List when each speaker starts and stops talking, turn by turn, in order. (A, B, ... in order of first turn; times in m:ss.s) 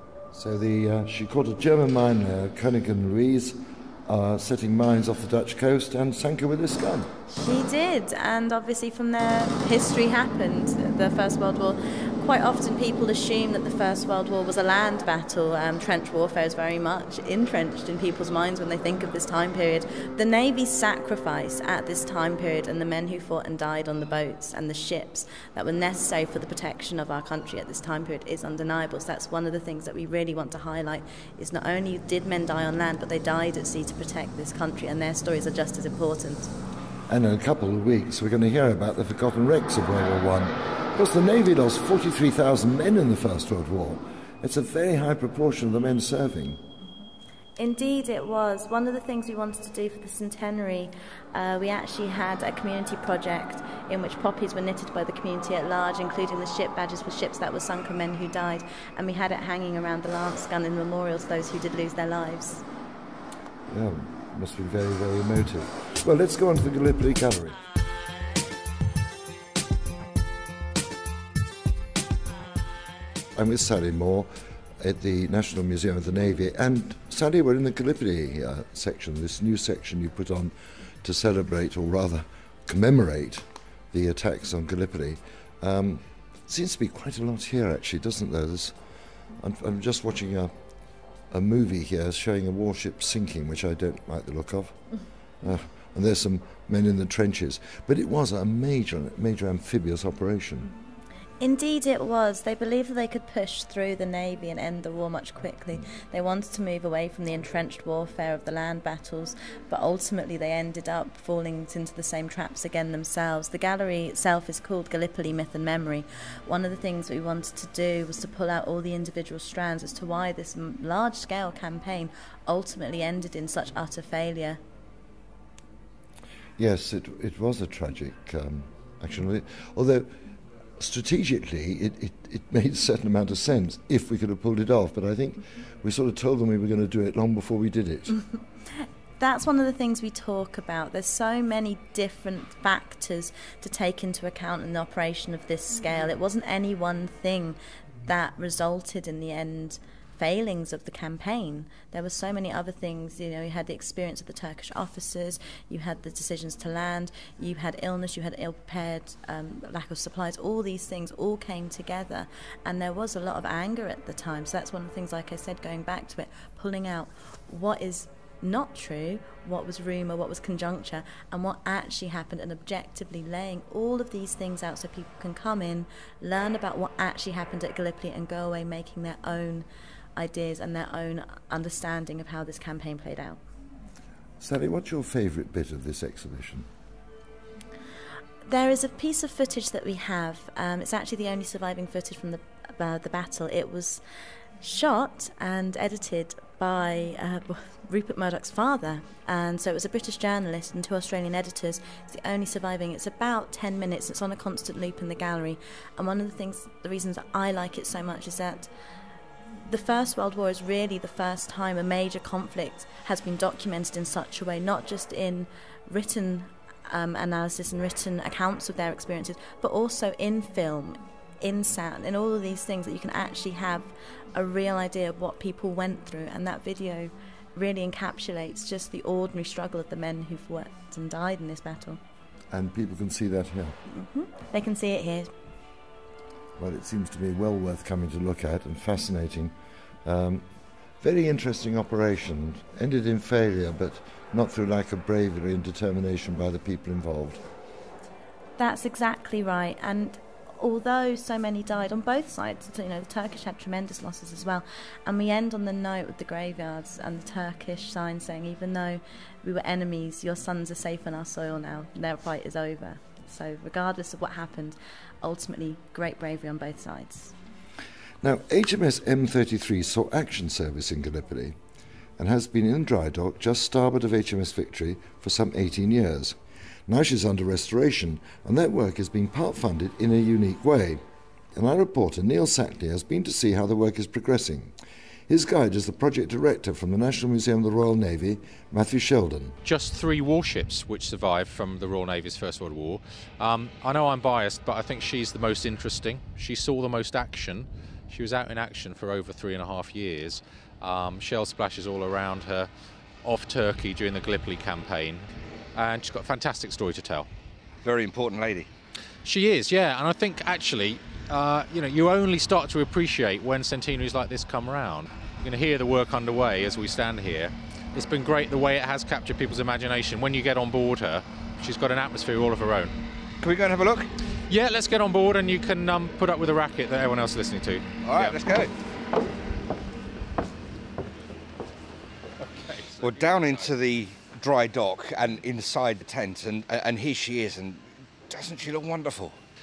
0:00.3-0:07.1 A
0:07.3-0:36.5 B
0:37.1-0:46.6 A
0:47.6-1:02.6 B
1:03.7-1:07.6 A
1:13.3-1:14.3 A
1:14.8-1:28.7 A
1:29.4-1:30.5 A
1:31.3-1:34.8 A
1:35.4-1:40.7 A
1:41.4-2:04.6 B
2:06.6-2:10.1 A
2:10.8-2:18.1 A
2:19.2-3:03.4 B
3:04.4-3:06.7 A
3:08.4-3:14.0 B
3:14.6-3:28.7 B
3:29.6-3:52.0 B
3:52.5-3:53.8 A
3:53.9-3:55.3 B
3:56.6-3:59.5 A
4:00.0-4:00.4 A
4:01.0-4:07.4 A
4:08.6-4:27.3 B
4:28.2-4:31.6 A
4:32.2-4:36.4 A
4:36.9-4:41.0 A
4:41.5-4:44.7 A
4:45.3-4:49.6 A
4:49.6-5:02.7 C
5:03.2-5:07.3 C
5:07.8-5:08.7 D
5:09.2-5:22.9 C
5:23.4-5:24.1 D
5:24.5-5:28.4 C
5:28.0-5:28.7 D
5:32.5-5:33.3 C
5:33.0-5:39.4 D